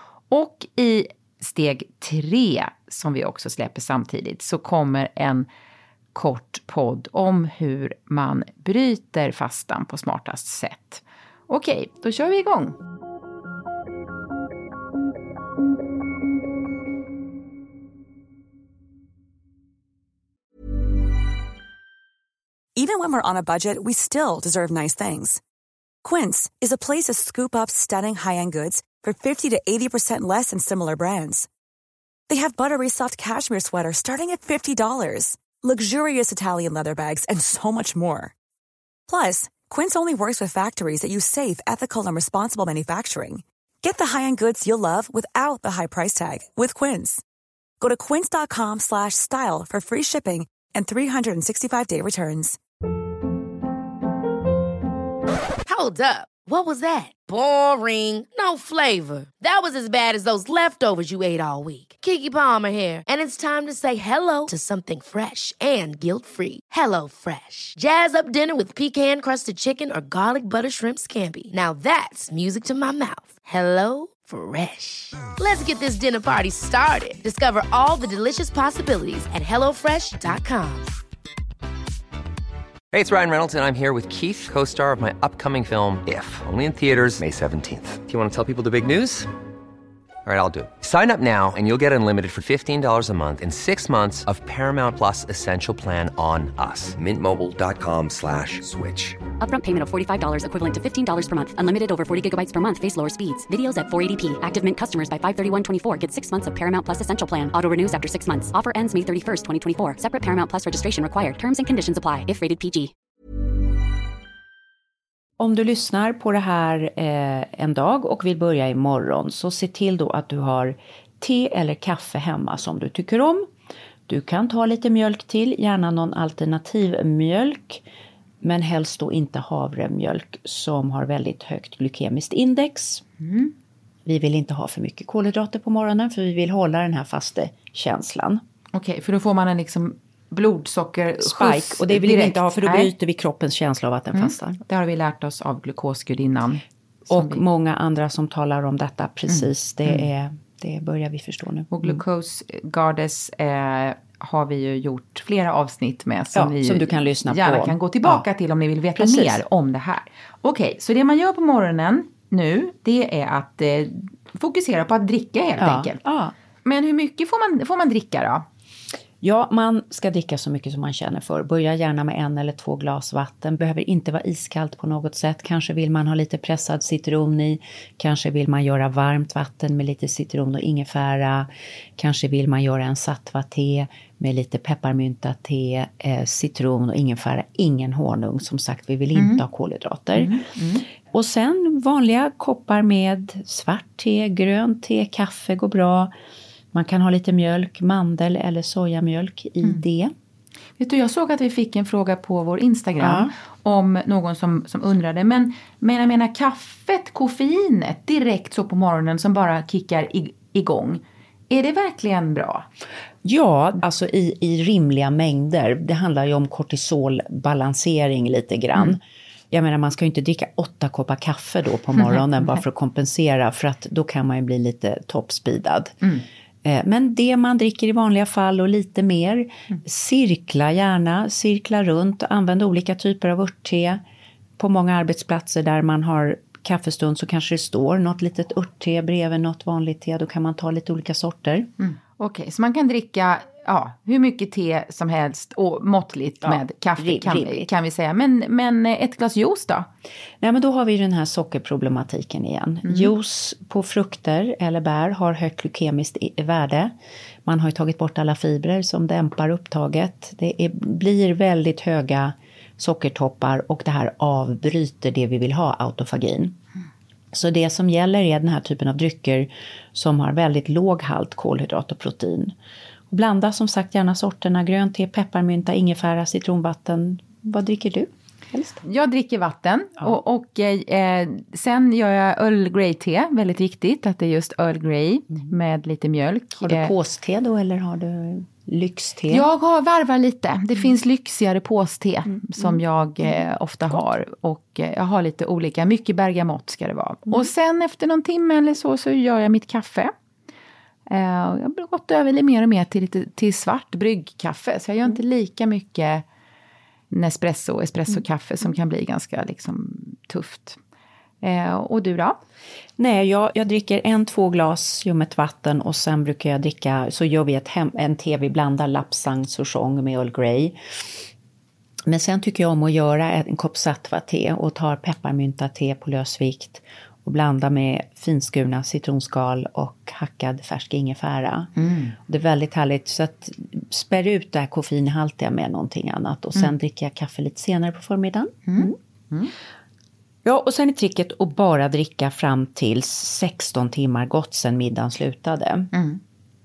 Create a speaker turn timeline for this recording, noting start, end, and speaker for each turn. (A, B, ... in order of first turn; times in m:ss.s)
0:00.3-0:05.5 A
0:06.1-0:12.8 A
0:22.8-0:25.4 B
0:26.0-0:31.5 B
0:32.3-0:38.3 B
0:39.1-0:47.2 B
0:47.8-0:52.6 B
0:55.6-1:21.0 C
1:22.9-1:29.3 D
1:30.2-1:39.2 D
1:39.4-1:52.9 E
1:55.4-2:03.5 F
2:04.1-2:07.8 F
2:08.4-2:13.0 F
2:13.2-2:13.5 A
2:14.0-2:18.4 F
2:18.7-2:22.9 A
2:21.2-2:24.6 F
2:24.1-2:27.4 A
2:27.1-2:32.0 F
2:29.3-2:30.1 A
2:31.7-2:46.0 A
2:36.3-2:38.2 F
2:39.0-2:39.4 F
2:45.6-2:46.3 F
2:46.6-2:48.4 A
2:49.2-3:10.4 F
3:09.1-3:09.4 A
3:10.2-3:10.8 A
3:11.0-3:16.1 F
3:16.7-3:20.1 F
3:20.8-3:32.7 A
3:23.0-3:23.3 F
3:33.2-3:46.0 F
3:46.6-3:54.0 F
3:54.6-4:01.7 F
4:01.8-4:09.9 A
4:06.4-4:07.7 F
4:10.4-4:16.9 F
4:12.8-4:13.1 A
4:17.4-4:26.6 F
4:27.3-4:32.5 F
4:33.1-4:38.8 F
4:38.8-4:46.9 A
4:46.6-4:49.5 F
4:49.3-5:00.1 A
5:01.1-5:06.2 A
5:07.1-5:10.8 A
5:11.4-5:12.4 A
5:13.0-5:21.2 F
5:22.0-5:38.9 F
5:31.8-5:32.1 A
5:38.6-5:39.5 A
5:40.4-5:45.9 F
5:45.9-5:46.2 A